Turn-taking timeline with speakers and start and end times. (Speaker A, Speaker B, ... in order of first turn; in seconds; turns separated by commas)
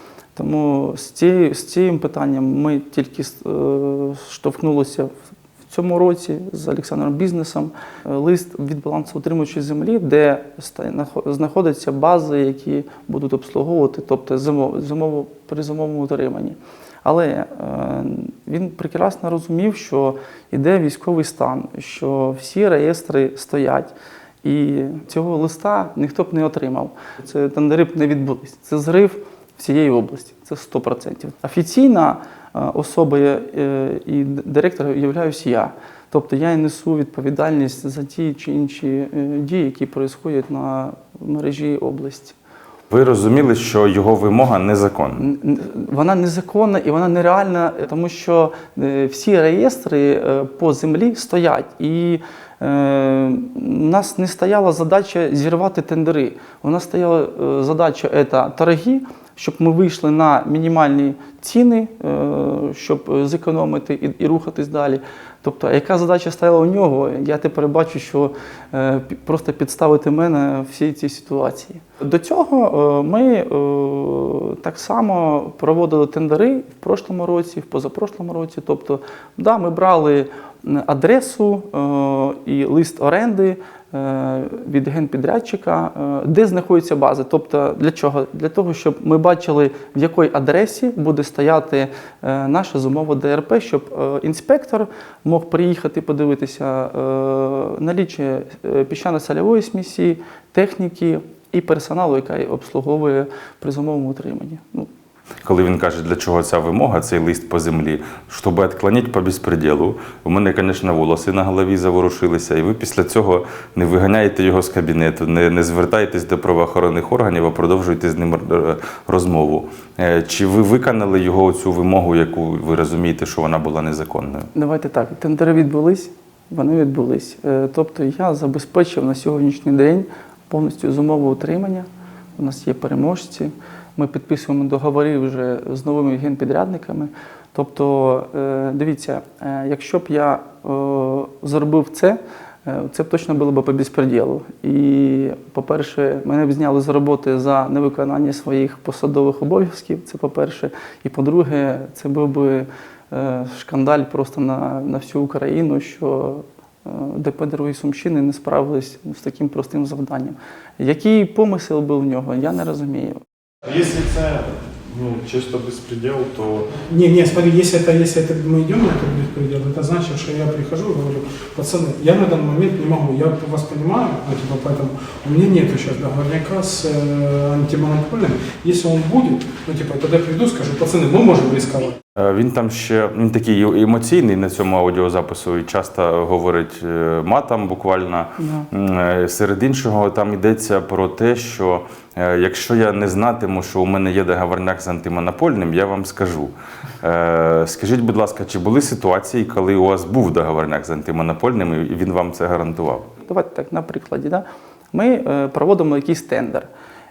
Speaker A: 0.3-5.1, Speaker A: 5.7-42.4, Speaker B: 42.9-45.2, Speaker A: 45.2-104.9, Speaker B: 105.4-124.5, Speaker A: 124.5-131.9, Speaker A: 132.4-163.2, Speaker C: 163.6-166.8, Speaker D: 166.8-182.0, Speaker B: 182.2-203.1, Speaker A: 188.4-188.7, Speaker A: 203.2-206.7